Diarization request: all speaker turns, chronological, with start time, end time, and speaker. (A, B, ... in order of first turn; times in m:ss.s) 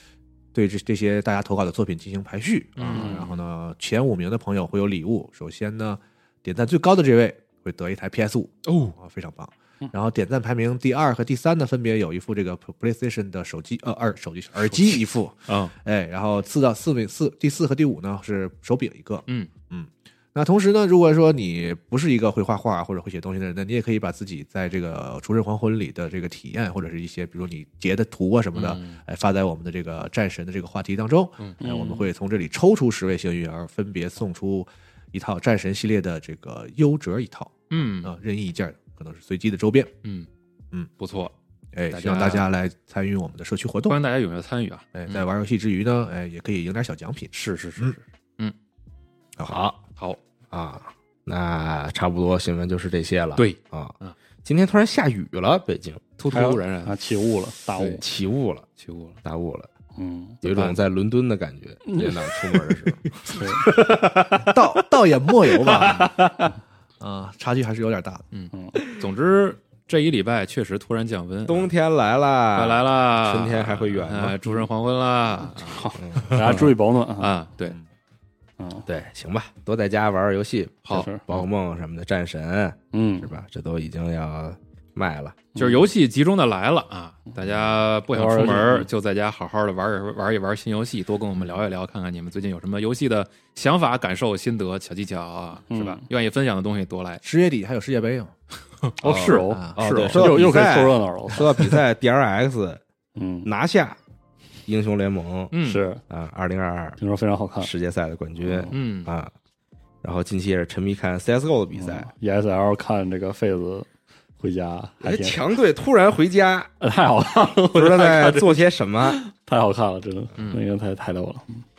0:00.5-0:39.9 A
0:02.8-0:03.3 B
0:02.9-0:03.3 C
0:08.6-0:08.9 B
0:14.6-0:15.7 B
0:28.5-0:29.0 B
0:31.6-0:32.1 C
0:37.7-0:38.2 B
0:41.0-0:41.3 B
0:41.7-0:44.0 A
0:41.9-0:42.5 B
0:43.9-0:45.2 B
0:44.9-0:47.9 A
0:47.3-0:48.5 B
0:49.4-0:49.6 A
0:49.5-0:49.8 D
0:50.5-0:53.9 D
0:53.4-0:54.2 B
0:54.4-0:56.0 D
0:56.2-0:56.9 B
0:56.3-0:58.0 C
0:58.0-0:58.6 D
0:58.8-0:59.2 B
0:59.2-0:59.7 D
1:00.0-1:00.4 C
1:00.4-1:04.5 D
1:00.4-1:00.8 B
1:01.8-1:02.6 C
1:03.3-1:03.6 C
1:04.4-1:06.3 A
1:05.7-1:06.0 D
1:05.8-1:06.1 B
1:07.0-1:08.2 A
1:08.3-1:11.7 B
1:08.5-1:08.8 C
1:11.4-1:14.4 D
1:12.5-1:17.8 B
1:15.7-1:17.3 C
1:16.0-1:16.7 D
1:18.6-1:18.9 C
1:18.9-1:25.4 D
1:20.8-1:21.4 B
1:20.9-1:21.2 C
1:22.9-1:23.3 C
1:25.5-1:25.8 C
1:25.6-1:37.2 B
1:28.1-1:28.9 C
1:35.7-1:36.0 C
1:37.2-1:38.3 A
1:38.8-1:40.3 B
1:39.0-1:41.8 C
1:39.0-1:42.8 D
1:39.5-1:40.2 A
1:43.2-1:43.5 C
1:43.4-1:44.0 D
1:44.6-1:45.5 D
1:45.5-1:45.8 B
1:45.6-1:46.0 C
1:46.1-1:47.0 D
1:47.0-1:47.7 C
1:47.6-1:49.3 D
1:48.4-1:48.7 C
1:48.7-1:49.1 B
1:50.0-1:52.1 D
1:51.7-1:53.9 C
1:54.4-1:55.4 C
1:55.0-1:56.7 D
1:56.8-2:01.6 C
1:57.7-1:59.2 D
2:00.4-2:00.6 B